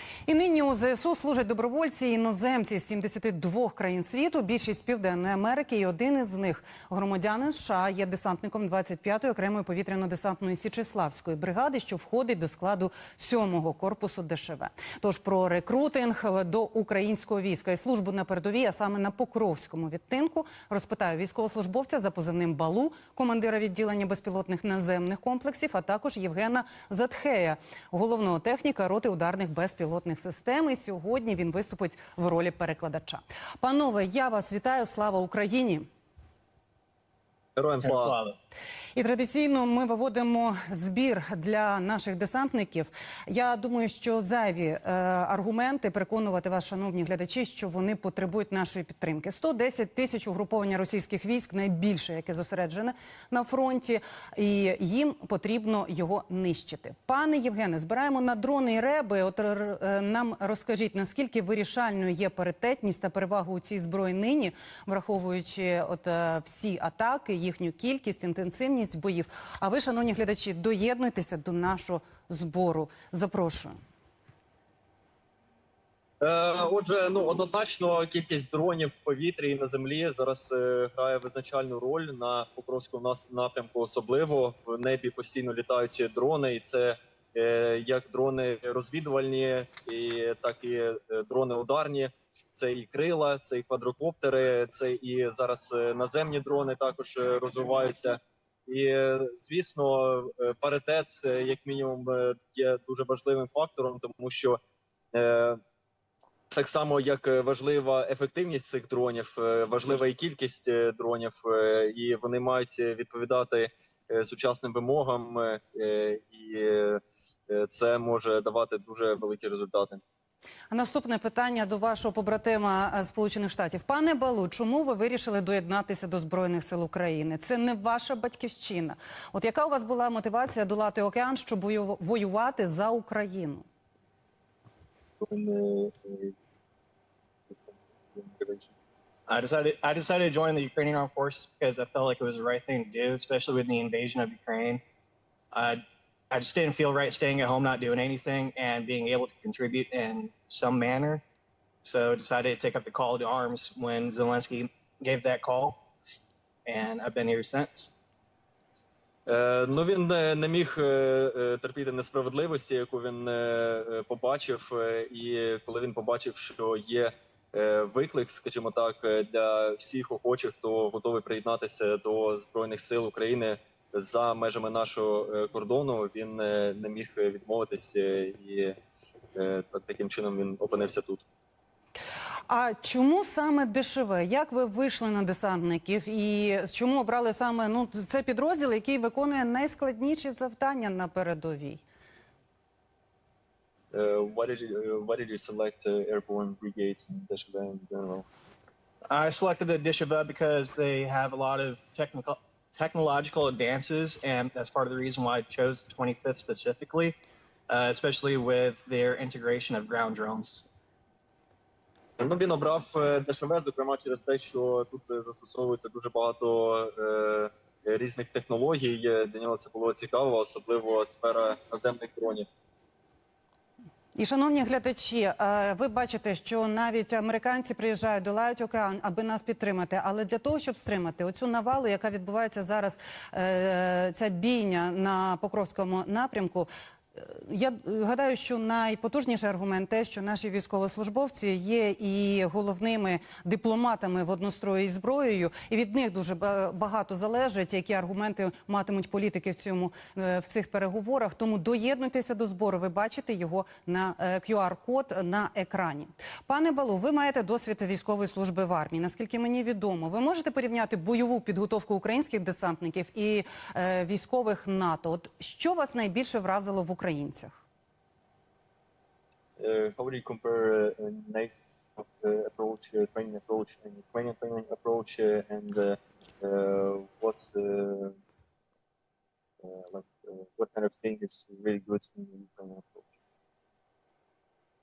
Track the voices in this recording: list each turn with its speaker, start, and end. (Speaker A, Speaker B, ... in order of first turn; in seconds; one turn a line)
Speaker A: 0.2-35.9
Speaker B: 37.5-38.1
Speaker C: 37.8-38.4
Speaker A: 38.9-73.8
Speaker B: 76.2-104.6
Speaker B: 105.1-105.6
Speaker B: 106.5-120.0
Speaker A: 120.7-133.7
Speaker B: 135.2-136.3
Speaker B: 137.5-138.7
Speaker C: 139.3-144.8
Speaker C: 145.5-151.2
Speaker C: 151.8-155.8
Speaker C: 156.6-157.9
Speaker B: 159.3-178.7
Speaker B: 179.3-181.2
Speaker A: 182.5-191.8
Speaker B: 193.9-198.2
Speaker C: 199.1-207.2
Speaker C: 207.7-210.6
Speaker B: 212.2-222.5
Speaker A: 224.1-267.6
Speaker B: 269.6-278.1
Speaker B: 279.6-283.1